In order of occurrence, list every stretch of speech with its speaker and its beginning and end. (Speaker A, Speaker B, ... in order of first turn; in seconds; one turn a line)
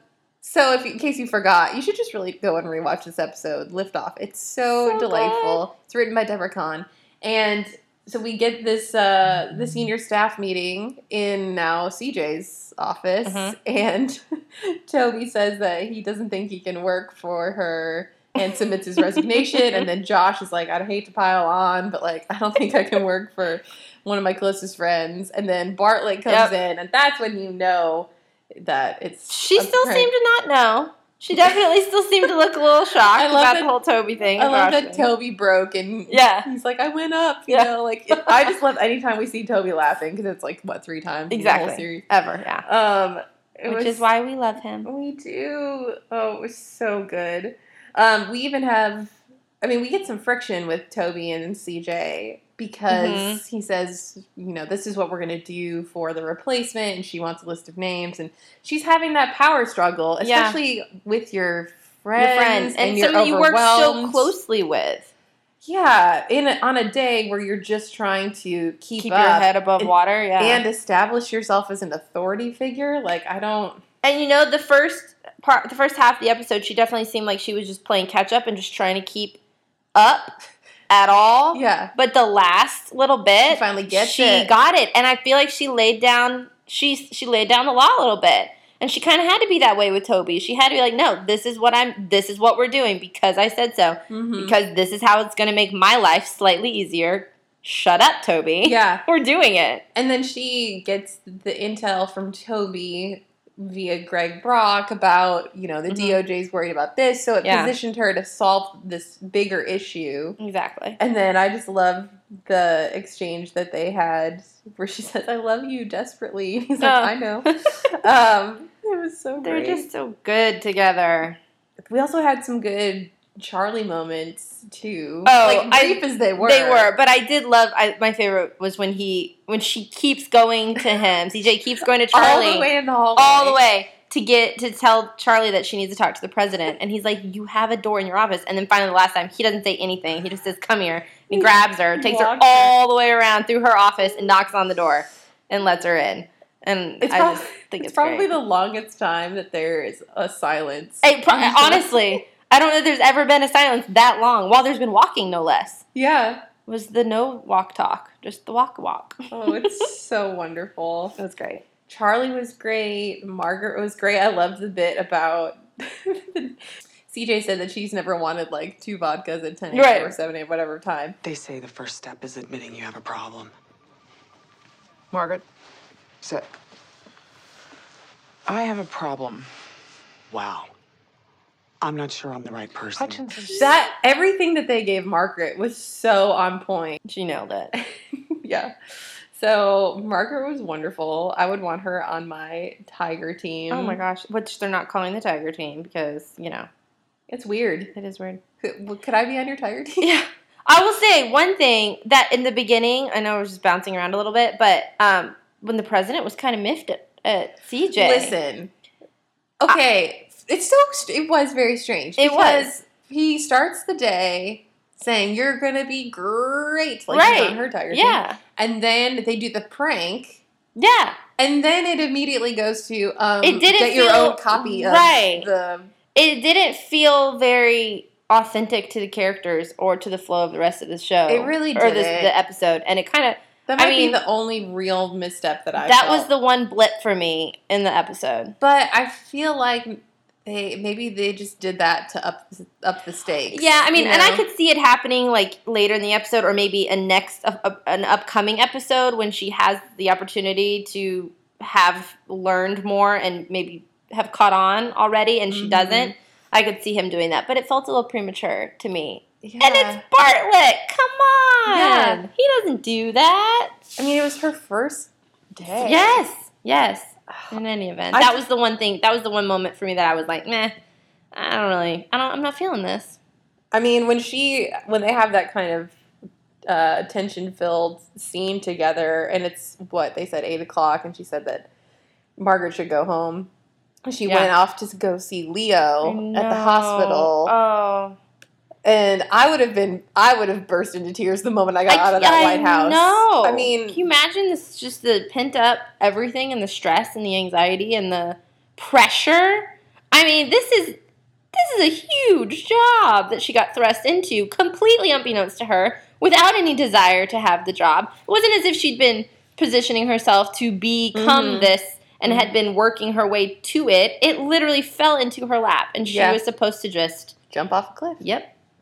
Speaker A: 0.4-30.1
Speaker B: 4.9-5.6
Speaker B: 13.2-13.6
Speaker B: 19.0-19.8
Speaker B: 26.3-26.5
Speaker B: 29.3-35.1
Speaker A: 33.1-42.0
Speaker B: 36.1-36.5
Speaker B: 37.5-38.5
Speaker B: 41.3-42.6
Speaker A: 42.6-44.0
Speaker B: 43.7-44.9
Speaker A: 44.8-64.3
Speaker B: 52.9-53.4
Speaker B: 60.2-60.6
Speaker B: 62.2-65.1
Speaker A: 65.6-73.8
Speaker B: 69.0-70.6
Speaker B: 74.0-79.4
Speaker B: 79.9-80.3
Speaker B: 80.9-99.8
Speaker A: 81.5-81.9
Speaker A: 83.5-84.5
Speaker A: 94.1-94.5
Speaker A: 98.6-99.0
Speaker A: 99.9-110.4
Speaker B: 105.9-106.2
Speaker B: 107.4-107.7
Speaker B: 110.4-111.0
Speaker A: 111.0-119.9
Speaker B: 116.8-117.5
Speaker B: 119.4-121.4
Speaker A: 121.8-126.9
Speaker B: 125.2-148.3
Speaker A: 132.1-133.6
Speaker A: 141.3-142.7
Speaker A: 147.0-152.2
Speaker B: 151.0-155.8
Speaker A: 155.9-156.4
Speaker B: 156.7-159.8
Speaker A: 159.3-161.2
Speaker B: 161.2-161.6
Speaker A: 161.9-171.2
Speaker B: 169.7-170.2
Speaker C: 171.2-173.5
Speaker C: 175.1-175.4
Speaker C: 176.2-176.5
Speaker C: 178.4-179.5
Speaker C: 180.3-180.7
Speaker C: 181.8-183.7
Speaker B: 183.4-183.7
Speaker A: 183.4-187.0
Speaker B: 187.1-187.7
Speaker A: 187.7-188.7
Speaker A: 189.3-194.0
Speaker B: 193.7-196.7
Speaker A: 197.3-197.9
Speaker B: 197.9-198.4
Speaker A: 198.6-200.1
Speaker B: 200.0-208.3
Speaker A: 207.9-208.7
Speaker A: 209.6-220.4
Speaker B: 212.2-212.7
Speaker B: 217.1-218.4
Speaker B: 220.8-221.2
Speaker A: 221.4-225.9
Speaker B: 223.4-225.5
Speaker B: 226.1-234.2
Speaker A: 231.3-232.3
Speaker A: 233.7-236.3
Speaker B: 235.8-238.5
Speaker A: 238.6-244.4
Speaker B: 243.5-263.8
Speaker A: 255.5-256.1
Speaker A: 259.4-260.0
Speaker A: 261.7-262.2
Speaker A: 264.0-266.2
Speaker B: 265.8-270.7
Speaker A: 268.1-268.4
Speaker B: 271.3-273.2
Speaker A: 273.7-276.0
Speaker A: 276.6-281.7
Speaker A: 282.4-283.5
Speaker A: 284.1-287.5
Speaker B: 284.2-284.5
Speaker B: 286.0-288.2
Speaker A: 288.8-294.0
Speaker B: 291.9-301.0
Speaker B: 301.5-317.3
Speaker A: 311.1-311.7
Speaker A: 312.2-312.5
Speaker A: 316.0-316.4
Speaker A: 317.5-318.2
Speaker B: 318.2-318.5